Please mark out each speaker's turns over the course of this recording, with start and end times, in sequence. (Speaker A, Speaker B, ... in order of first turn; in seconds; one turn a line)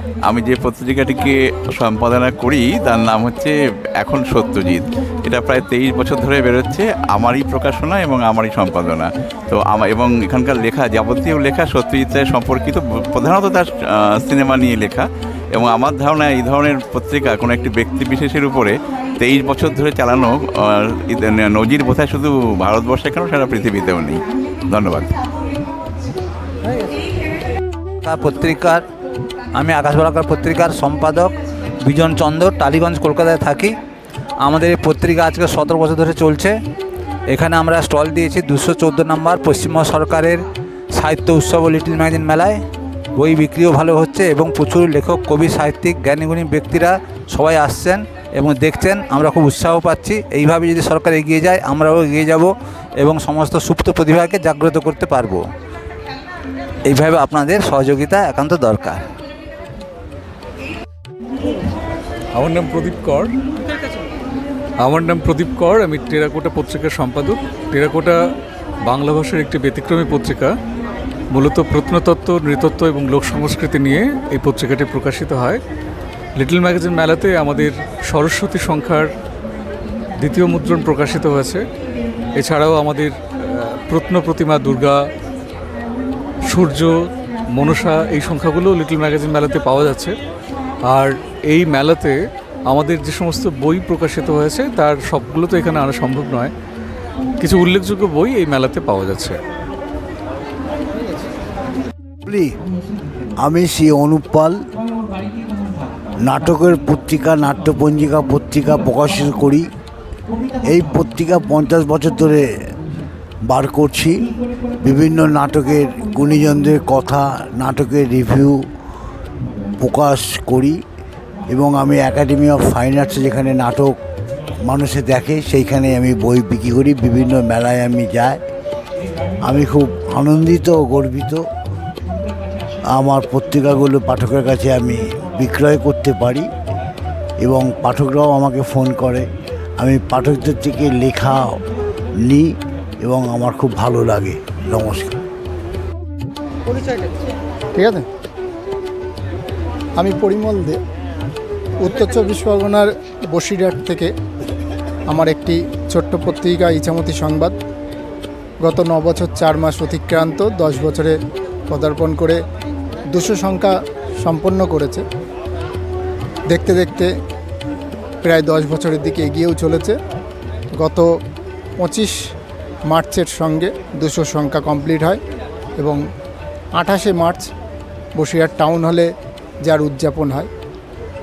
Speaker A: 0.3-3.5
Speaker A: 4.0-13.7
Speaker A: 14.3-15.0
Speaker A: 15.6-18.7
Speaker A: 19.2-20.3
Speaker A: 21.1-24.2
Speaker A: 24.7-25.1
Speaker B: 28.0-28.8
Speaker C: 28.1-28.8
Speaker C: 29.6-31.3
Speaker B: 29.6-31.3
Speaker B: 31.8-33.7
Speaker C: 31.9-33.7
Speaker C: 34.4-36.5
Speaker B: 34.6-36.3
Speaker B: 37.3-40.2
Speaker C: 37.3-40.4
Speaker B: 41.0-42.6
Speaker C: 41.0-42.5
Speaker C: 43.2-44.2
Speaker B: 43.2-52.5
Speaker C: 45.8-46.9
Speaker C: 47.5-49.0
Speaker C: 50.0-52.5
Speaker C: 53.0-55.4
Speaker B: 53.0-53.4
Speaker B: 54.6-55.4
Speaker C: 56.9-59.0
Speaker B: 56.9-59.0
Speaker D: 62.3-63.4
Speaker D: 64.8-68.2
Speaker D: 68.8-70.5
Speaker D: 71.3-75.6
Speaker D: 76.3-79.1
Speaker D: 80.2-81.6
Speaker D: 82.3-85.0
Speaker D: 86.5-90.2
Speaker D: 90.9-96.5
Speaker D: 97.4-99.4
Speaker B: 102.3-102.5
Speaker B: 103.4-104.5
Speaker B: 106.2-109.7
Speaker B: 110.7-112.4
Speaker B: 113.5-114.2
Speaker B: 114.8-118.7
Speaker B: 119.8-120.8
Speaker B: 121.5-123.9
Speaker B: 124.7-128.4
Speaker B: 129.4-131.4
Speaker B: 132.9-136.4
Speaker B: 137.4-139.3
Speaker B: 139.8-141.5
Speaker B: 142.2-142.5
Speaker B: 143.1-145.2
Speaker E: 147.8-148.0
Speaker E: 150.0-150.8
Speaker E: 151.8-154.1
Speaker E: 155.1-157.5
Speaker E: 158.6-161.2
Speaker E: 161.7-162.4
Speaker E: 163.1-165.0
Speaker E: 166.5-167.1
Speaker E: 168.2-169.9
Speaker E: 170.8-171.1
Speaker E: 171.8-172.1
Speaker E: 172.9-175.2
Speaker E: 176.8-177.5
Speaker E: 178.2-179.1
Speaker E: 179.6-180.5